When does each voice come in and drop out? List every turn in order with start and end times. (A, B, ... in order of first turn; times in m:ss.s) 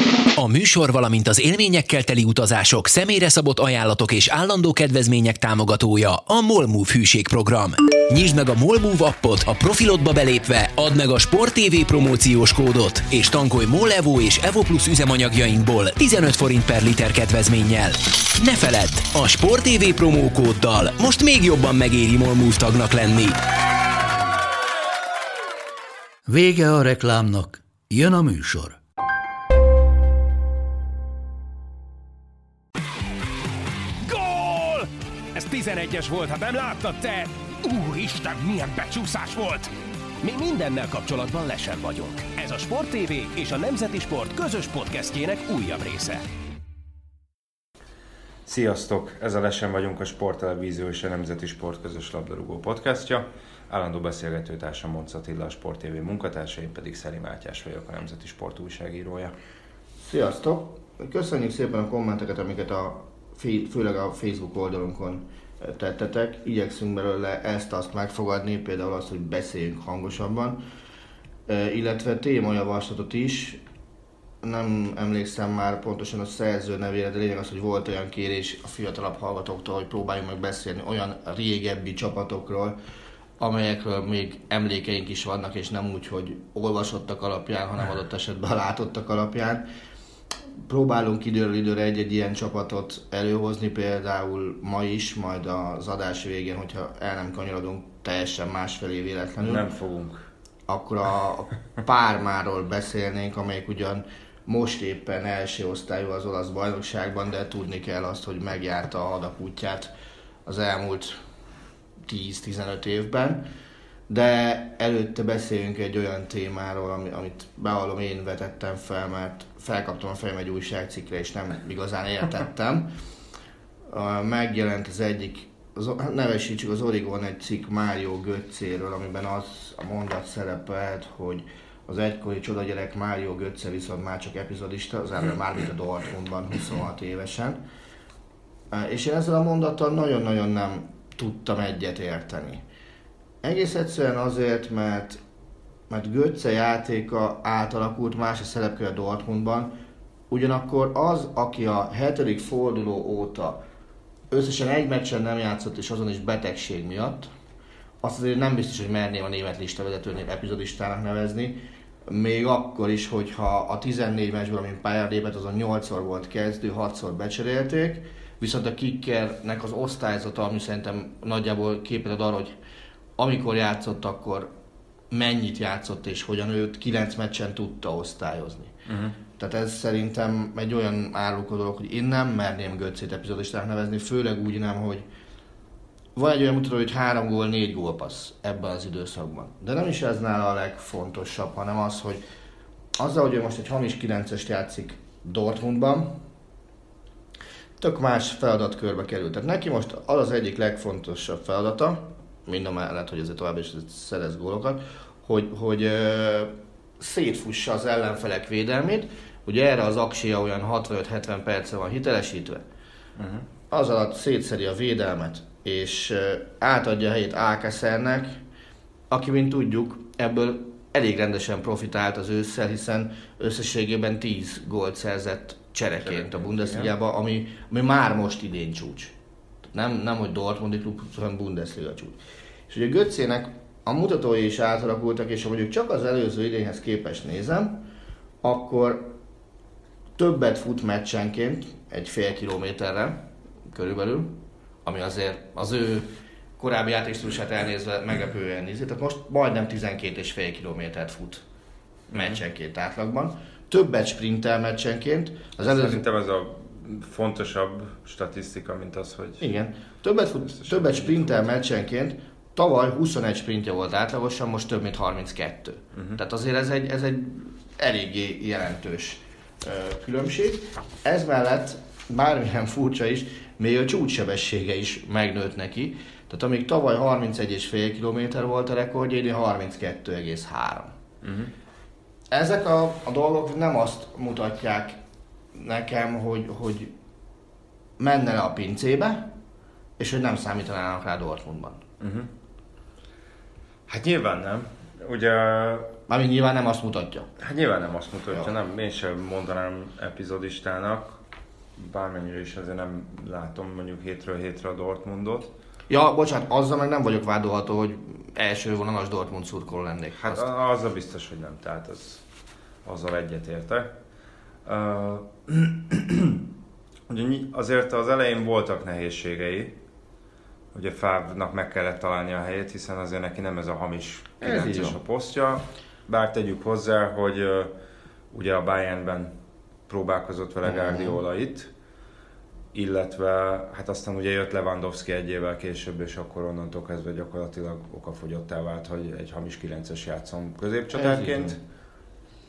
0:00.4-0:23.4 A
0:26.3-0:28.8 B
0:34.0-0:39.7 C
0:40.2-0:46.2 C
0:48.4-0:59.3 D
1:00.0-1:10.6 E
1:11.5-1:13.6 E
1:14.4-1:22.8 E
1:23.4-1:29.6 E
1:30.7-1:39.6 E
1:39.4-1:40.3 D
1:40.7-1:49.9 E
1:50.4-1:51.2 E
1:52.1-1:53.5 E
1:54.1-2:02.9 E
2:03.9-2:17.6 E
2:18.7-2:22.6 E
2:23.4-2:25.2 E
2:25.9-2:29.7 E
2:30.3-2:33.6 E
2:34.3-2:37.3 E
2:38.0-2:52.6 E
2:53.2-2:54.5 E
2:55.1-2:58.7 E
2:58.8-2:59.2 D
2:59.4-3:05.0 E
3:06.2-3:12.2 E
3:13.0-3:16.2 E
3:17.8-3:32.6 E
3:33.2-3:33.5 D
3:33.7-3:38.4 E
3:39.1-3:49.1 E
3:46.0-3:46.9 D
3:49.7-3:52.2 E
3:52.7-3:57.8 E
3:58.4-3:59.1 E
4:00.2-4:03.2 E
4:03.7-4:11.4 E
4:12.1-4:12.4 D
4:12.1-4:16.0 E
4:15.6-4:19.5 D
4:19.4-4:40.9 E
4:20.6-4:21.5 D
4:25.9-4:26.2 D
4:41.2-4:41.5 D
4:42.3-4:45.0 E
4:45.5-4:46.9 E
4:48.0-4:49.3 E
4:50.0-4:51.8 E
4:52.0-4:52.3 D
4:53.9-4:55.9 D
4:56.1-4:57.3 E
4:57.4-5:01.2 D
5:01.8-5:05.5 D
5:05.9-5:10.5 E
5:10.2-5:12.2 D
5:12.8-5:13.9 D
5:14.6-5:16.4 D
5:17.1-5:19.8 D
5:20.7-5:27.7 D
5:24.4-5:25.0 E
5:28.3-5:29.3 D
5:29.9-5:31.7 D
5:30.6-5:31.2 E
5:32.7-5:41.6 D
5:40.9-5:41.6 E